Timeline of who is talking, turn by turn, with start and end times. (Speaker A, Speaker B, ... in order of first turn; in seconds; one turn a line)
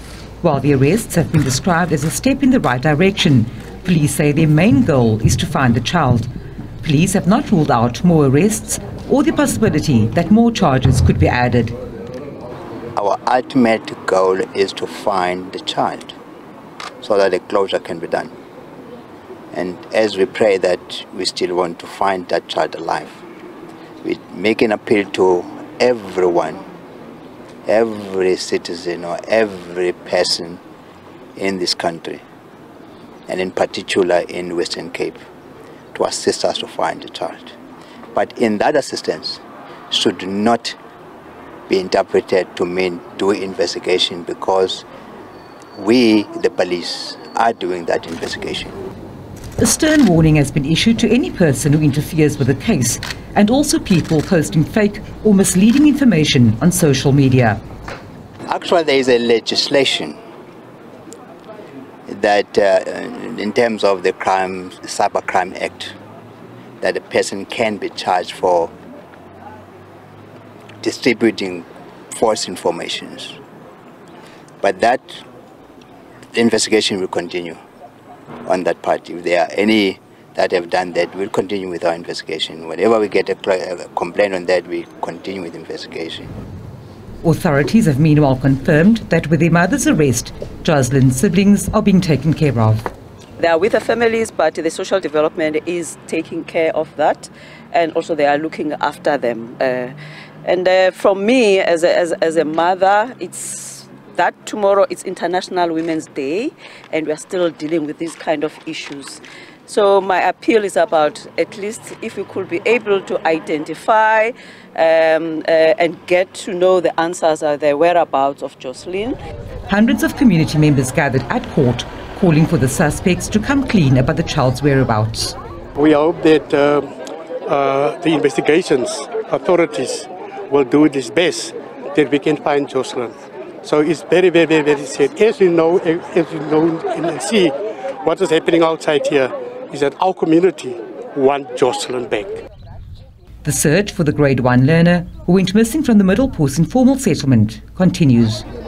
Speaker A: 0.4-6.3
Speaker A: 6.8-11.8
Speaker B: 12.9-16.1
Speaker B: 17.0-18.3
Speaker B: 19.5-23.2
Speaker B: 24.0-26.6
Speaker B: 27.6-30.6
Speaker B: 31.4-32.2
Speaker B: 33.3-35.2
Speaker B: 35.9-37.5
Speaker B: 38.1-40.8
Speaker B: 41.7-44.9
Speaker B: 45.7-48.8
Speaker A: 49.6-57.6
Speaker B: 58.5-60.2
Speaker B: 62.1-65.9
Speaker B: 66.8-68.7
Speaker B: 70.8-73.4
Speaker B: 74.6-75.2
Speaker B: 76.3-77.6
Speaker B: 78.5-86.3
Speaker A: 87.2-92.9
Speaker C: 93.4-119.2
Speaker A: 119.7-125.3
Speaker D: 125.7-126.9
Speaker D: 127.5-142.4
Speaker A: 143.4-148.4